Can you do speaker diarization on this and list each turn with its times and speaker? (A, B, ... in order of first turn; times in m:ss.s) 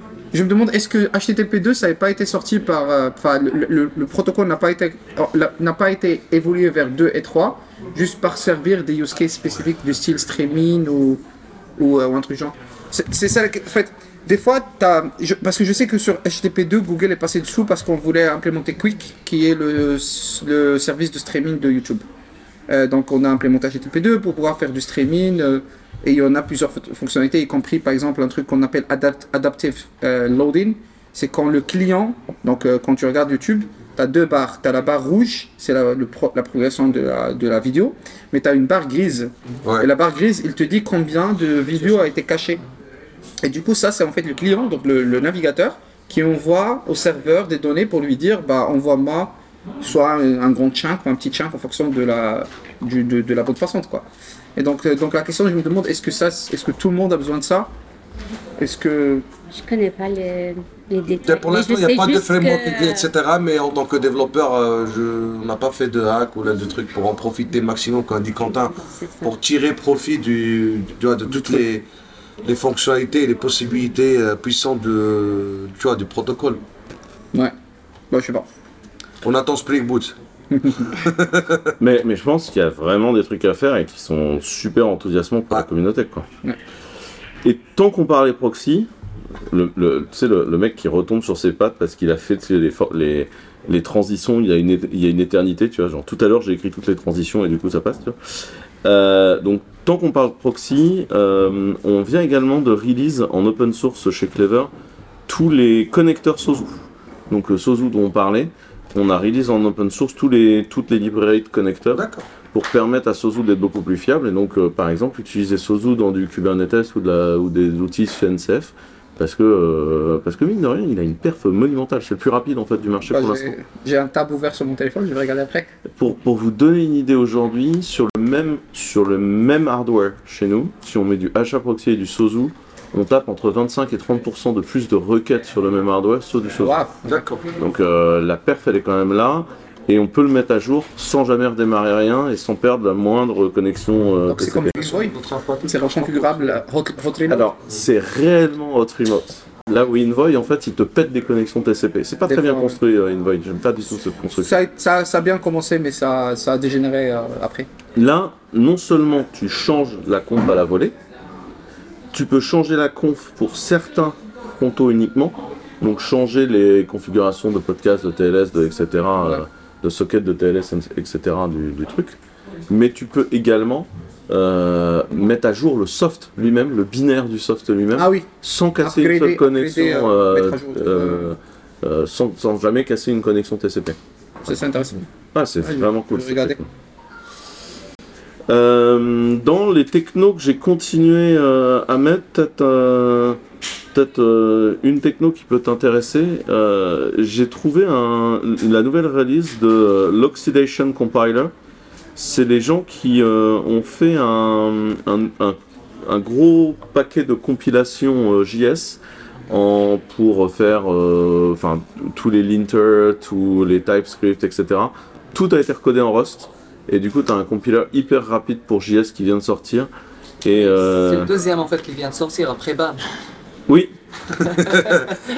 0:00.3-0:11.2 A
0:11.8-0:22.0 A
0:22.7-0:42.6 A
0:43.4-0:57.7 A
0:58.6-0:59.2 A
0:59.5-1:03.1 B
1:01.2-1:11.8 C
1:08.8-1:09.3 B
1:12.4-1:16.6 C
1:18.1-1:18.4 A
1:19.2-1:20.1 C
1:20.5-1:20.9 A
1:20.8-1:21.7 C
1:21.8-1:26.3 D
1:27.4-1:28.9 D
1:29.5-1:38.2 D
1:38.8-1:44.7 D
1:45.3-2:03.5 D
1:51.9-1:52.2 C
2:03.1-2:05.7 A
2:06.0-2:16.8 D
2:16.6-2:17.2 A
2:17.0-2:17.4 C
2:17.6-2:24.8 D
2:24.3-2:25.1 A
2:24.7-2:26.4 C
2:25.6-2:27.5 A
2:27.3-2:34.5 D
2:32.3-2:32.8 A
2:34.4-2:37.7 A
2:38.0-2:40.9 D
2:42.1-2:52.1 D
2:52.7-3:04.0 D
2:57.9-2:58.3 A
2:58.8-3:01.3 A
3:04.4-3:05.0 A
3:05.3-3:06.7 D
3:05.6-3:06.6 A
3:08.5-3:13.4 D
3:13.9-3:21.5 D
3:22.2-3:39.9 D
3:40.4-3:41.3 D
3:40.5-3:43.0 E
3:44.5-3:45.2 E
3:44.6-3:45.0 C